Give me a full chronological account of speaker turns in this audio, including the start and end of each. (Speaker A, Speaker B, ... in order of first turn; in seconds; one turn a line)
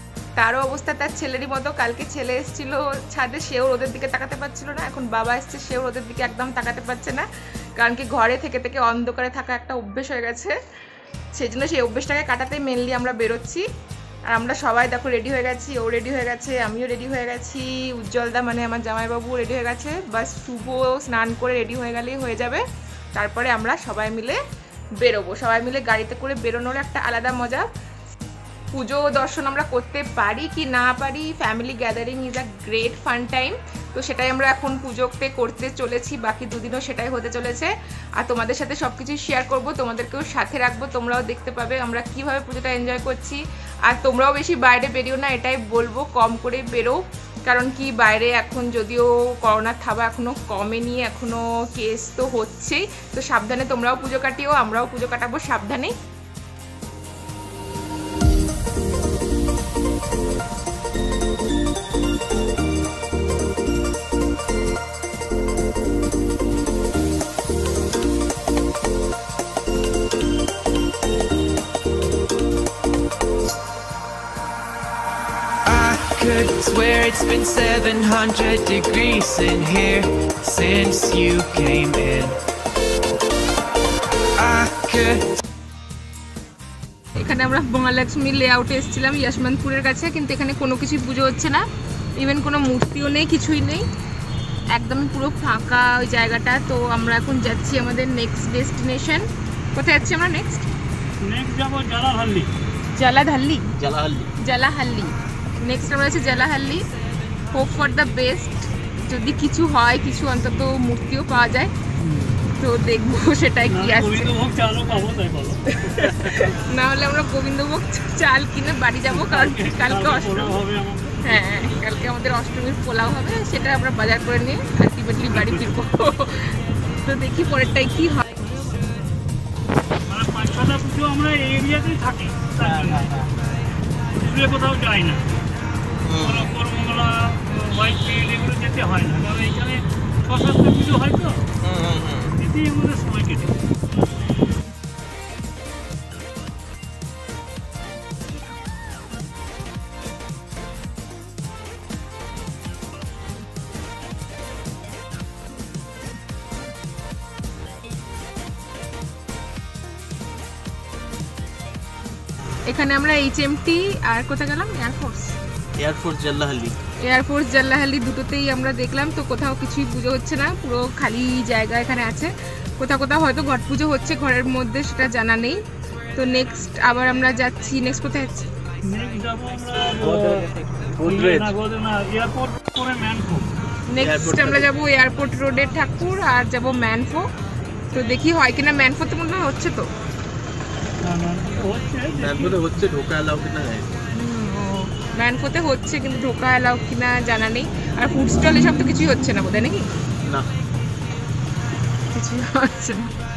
Speaker A: 0.4-10.6
Speaker A: 11.3-13.7
Speaker A: 14.3-22.6
Speaker A: 23.1-24.4
Speaker A: 25.0-27.7
Speaker A: 28.7-55.9
Speaker B: 75.7-82.4
Speaker B: 84.4-85.4
Speaker A: 87.2-91.6
Speaker A: 92.2-93.9
Speaker A: 94.7-100.7
Speaker C: 101.2-102.5
Speaker A: 103.0-103.7
Speaker D: 103.8-104.3
Speaker A: 104.4-106.9
Speaker A: 107.5-111.7
Speaker C: 112.0-112.4
Speaker A: 112.5-114.3
Speaker C: 113.7-116.4
Speaker A: 115.7-120.6
Speaker C: 119.1-121.4
Speaker A: 121.2-128.3
Speaker C: 125.3-125.6
Speaker C: 130.1-133.3
Speaker D: 132.6-133.3
Speaker C: 134.1-135.3
Speaker D: 136.1-136.4
Speaker C: 136.1-141.5
Speaker D: 141.8-142.2
Speaker C: 142.1-143.5
Speaker A: 162.7-165.3
Speaker D: 165.8-166.7
Speaker A: 167.0-175.6
Speaker A: 176.2-178.6
Speaker C: 178.8-180.5
Speaker B: 179.4-180.2
Speaker D: 180.0-181.6
Speaker C: 181.0-183.5
Speaker A: 183.9-187.3
Speaker D: 184.0-184.7
Speaker A: 187.9-189.9
Speaker C: 191.0-192.6
Speaker D: 192.1-193.9
Speaker A: 194.1-199.9
Speaker D: 200.2-200.5
Speaker A: 202.1-203.2